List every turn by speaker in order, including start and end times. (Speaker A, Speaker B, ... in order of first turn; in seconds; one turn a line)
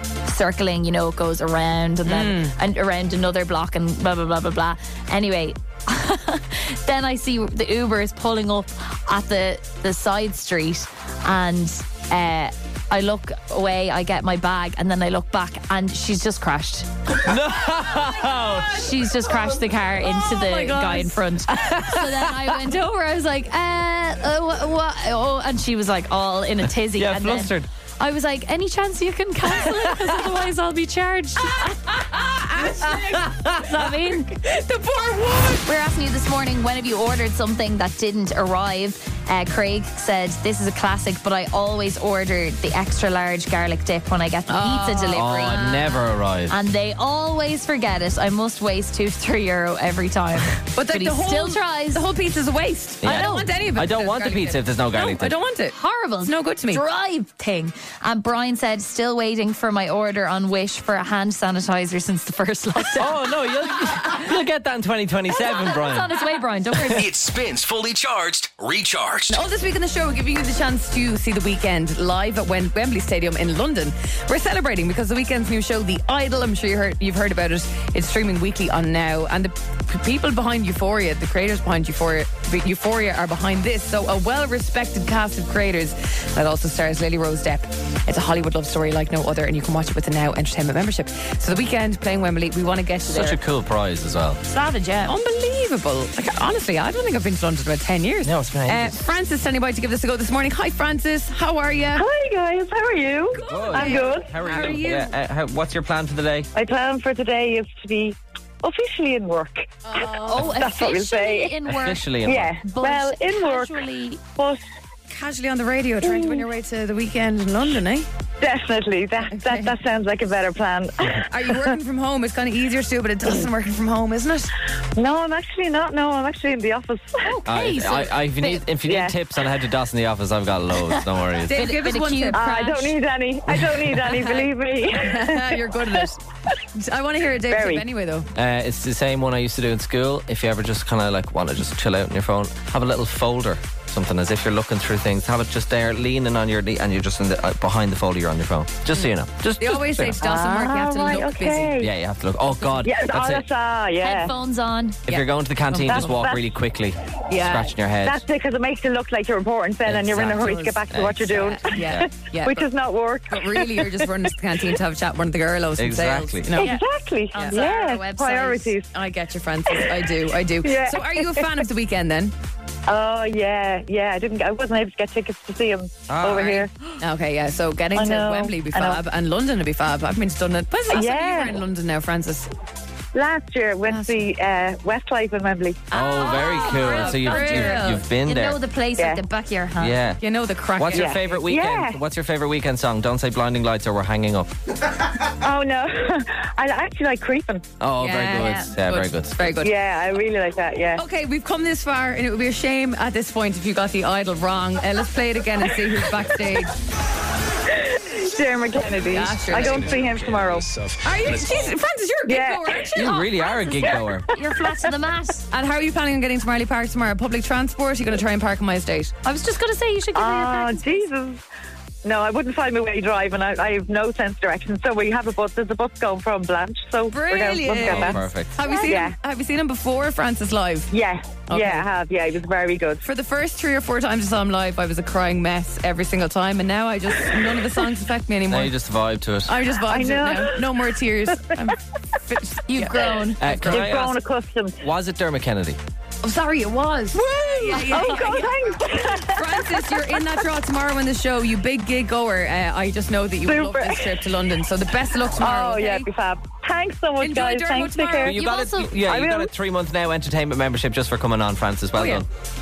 Speaker A: 0.2-16.9
Speaker B: 2.0-2.5
Speaker C: 17.2-18.9
Speaker A: 18.7-31.8
Speaker B: 20.3-21.1
Speaker C: 21.5-22.6
Speaker C: 26.9-27.7
Speaker C: 29.5-30.3
Speaker B: 31.6-35.6
Speaker A: 33.5-34.3
Speaker A: 35.6-52.0
Speaker B: 44.5-45.4
Speaker C: 45.1-46.6
Speaker B: 50.7-56.8
Speaker C: 53.0-55.4
Speaker A: 53.0-53.5
Speaker A: 55.7-63.2
Speaker C: 63.0-66.2
Speaker A: 65.3-67.0
Speaker D: 66.9-69.4
Speaker B: 69.3-93.4
Speaker C: 93.1-94.4
Speaker A: 94.4-95.1
Speaker B: 95.1-102.1
Speaker C: 98.2-99.0
Speaker E: 102.0-104.8
Speaker B: 103.4-105.1
Speaker C: 103.5-106.5
Speaker E: 106.5-111.7
Speaker B: 109.8-110.6
Speaker A: 110.2-114.2
Speaker C: 111.7-112.5
Speaker E: 112.2-113.8
Speaker B: 115.1-118.1
Speaker E: 116.0-116.5
Speaker E: 118.4-121.8
Speaker B: 119.3-119.7
Speaker B: 121.2-124.5
Speaker E: 125.0-127.4
Speaker A: 127.2-128.6
Speaker C: 127.5-131.7
Speaker E: 128.8-129.2
Speaker A: 130.9-132.9
Speaker B: 131.5-132.8
Speaker E: 132.3-136.1
Speaker B: 134.1-136.2
Speaker B: 136.8-138.3
Speaker E: 137.5-137.8
Speaker C: 138.3-150.2
Speaker B: 149.6-151.8
Speaker E: 150.2-151.9
Speaker C: 151.8-153.4
Speaker E: 152.8-154.3
Speaker A: 154.0-155.0
Speaker C: 155.1-158.2
Speaker B: 155.1-156.2
Speaker E: 155.9-156.5
Speaker B: 157.3-157.7
Speaker E: 158.0-164.3
Speaker C: 159.8-162.1
Speaker B: 161.3-162.7
Speaker B: 163.3-166.8
Speaker C: 165.8-166.5
Speaker E: 166.6-168.9
Speaker A: 166.6-168.7
Speaker B: 167.4-167.7
Speaker B: 168.8-172.3
Speaker E: 169.7-170.1
Speaker E: 170.6-171.7
Speaker E: 172.9-176.7
Speaker C: 176.1-176.7
Speaker B: 177.0-182.5
Speaker E: 177.9-179.0
Speaker E: 180.9-181.6
Speaker E: 183.1-185.9
Speaker B: 183.9-184.3
Speaker B: 185.9-188.0
Speaker C: 185.9-188.6
Speaker A: 186.1-190.0
Speaker E: 189.0-189.2
Speaker C: 189.8-190.2
Speaker B: 190.2-191.4
Speaker C: 190.8-194.6
Speaker E: 190.9-192.0
Speaker E: 195.4-197.7
Speaker C: 197.8-199.6
Speaker B: 198.0-199.7
Speaker E: 199.6-201.0
Speaker B: 201.0-206.8
Speaker E: 207.7-210.7
Speaker B: 208.9-210.0
Speaker D: 209.9-211.6
Speaker B: 211.0-213.3
Speaker E: 212.2-213.0
Speaker C: 212.9-214.3
Speaker A: 214.3-215.5
Speaker B: 215.5-219.1
Speaker A: 219.2-220.9
Speaker E: 220.2-221.4
Speaker E: 222.0-229.2
Speaker B: 227.1-230.9
Speaker C: 227.7-228.6
Speaker E: 230.9-233.0
Speaker B: 231.5-231.9
Speaker B: 233.0-238.7
Speaker C: 238.5-239.6
Speaker B: 239.5-243.9
Speaker E: 239.8-241.6
Speaker A: 242.7-243.7
Speaker C: 243.4-244.2
Speaker E: 243.7-244.8
Speaker C: 244.8-245.8
Speaker B: 246.2-256.1
Speaker E: 247.1-250.2
Speaker E: 253.4-254.2
Speaker E: 255.4-258.4
Speaker B: 257.2-258.4
Speaker C: 258.2-262.3
Speaker A: 258.3-259.1
Speaker E: 259.0-259.5
Speaker B: 262.0-262.2